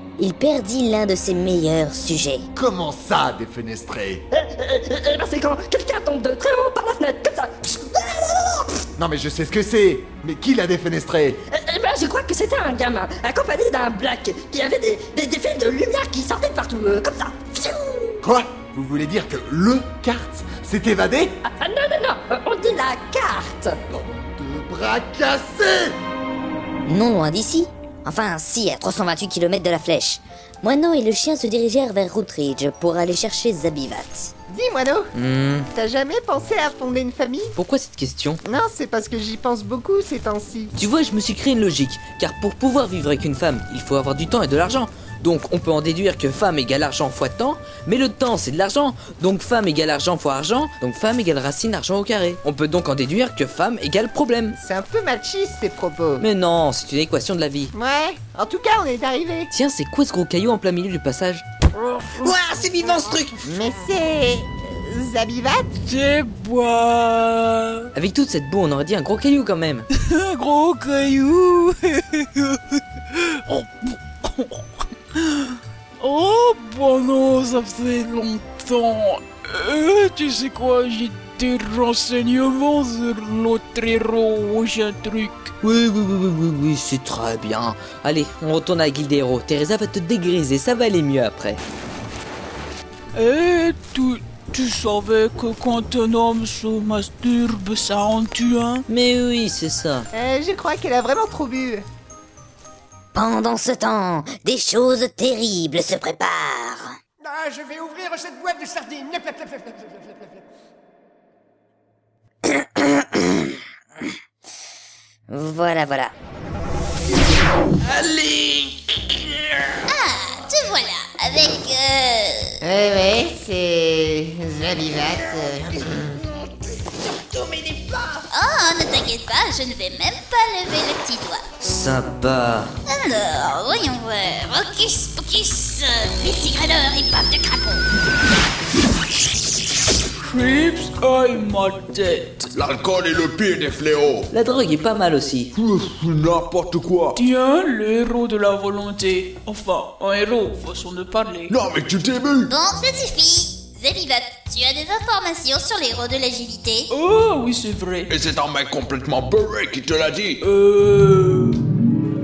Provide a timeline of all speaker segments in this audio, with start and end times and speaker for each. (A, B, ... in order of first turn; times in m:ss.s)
0:00.2-0:02.5 A
0:02.6-0:04.2 B
0:04.4-0:08.8 C
0:09.0-0:11.4 B
0:11.4-0:18.2 C
0:18.2-0:21.3 B
0:21.4-0:23.8 C
0:23.9-0:26.0 B
0:26.9-0:34.3 A
0:34.5-0:35.1 D
0:35.1-0:35.7 E
0:35.7-0:37.6 D
0:37.6-0:38.4 E
0:38.4-0:40.7 D
0:40.8-0:54.6 E
0:54.6-0:56.2 D
0:56.2-0:57.7 E
0:57.7-0:59.5 D
0:59.5-1:01.4 E
1:02.2-1:03.3 E
1:03.4-1:05.7 D
1:05.9-1:07.9 F
1:07.9-1:09.9 E
1:10.0-1:14.7 F
1:15.4-1:25.5 F
1:25.6-1:31.6 E
1:33.2-1:38.8 F
1:38.9-1:40.1 E
1:40.1-1:41.9 D
1:43.1-1:47.0 A
1:47.3-1:49.6 G
1:52.5-1:53.0 A
1:55.3-1:56.1 A
1:59.9-2:02.6 H
2:02.6-2:06.2 D
2:08.3-2:11.4 H
2:11.6-2:12.7 E
2:12.9-2:17.8 H
2:20.2-2:22.5 F
2:22.5-2:24.3 I
2:24.3-2:25.5 E
2:25.6-2:27.2 I
2:27.2-2:31.5 F
2:31.5-2:32.5 I
2:32.5-2:36.9 H
2:36.9-2:38.1 F
2:38.1-2:40.4 I
2:40.4-2:41.6 F